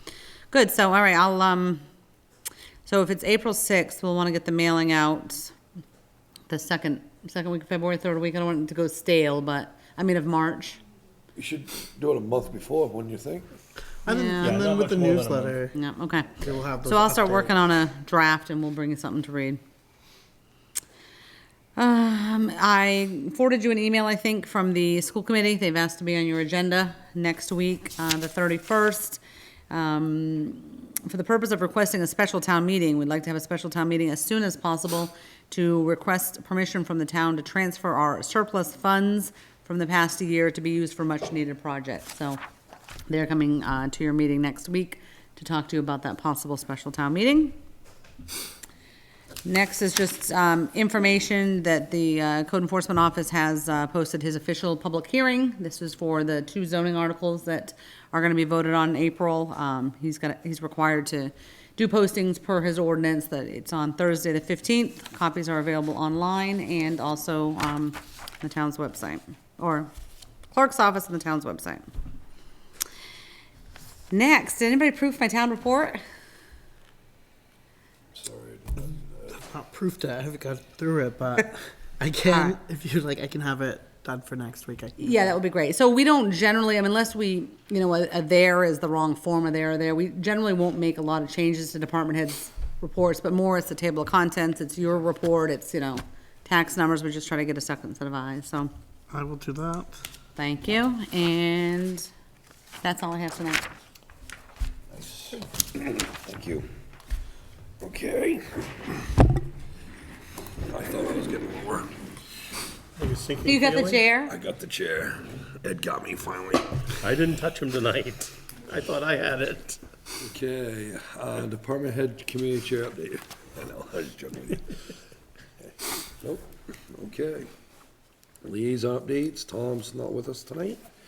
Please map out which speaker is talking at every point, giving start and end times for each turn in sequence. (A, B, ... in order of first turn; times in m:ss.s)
0:00.5-0:01.8 A
0:02.8-0:05.5 A
0:06.5-0:10.8 A
0:11.3-0:13.5 B
0:14.0-0:15.8 C
0:14.1-0:14.6 A
0:14.4-0:15.6 D
0:15.7-0:19.6 A
0:16.4-0:17.5 C
0:21.8-0:42.4 A
0:43.1-0:47.5 A
0:49.4-1:09.9 A
1:10.5-1:11.8 A
1:14.1-1:16.0 A
1:18.1-1:19.3 B
1:19.3-1:25.3 C
1:22.2-1:22.5 A
1:25.0-1:38.7 A
1:39.1-1:39.9 C
1:40.4-1:42.1 A
1:42.8-1:43.6 A
1:44.9-1:46.7 B
1:47.8-1:49.0 B
1:50.7-1:51.9 B
1:53.0-1:54.0 D
1:53.4-1:54.3 A
1:54.2-1:56.9 B
1:57.0-1:59.8 D
2:00.2-2:04.9 B
2:06.2-2:07.5 B
2:08.4-2:10.8 B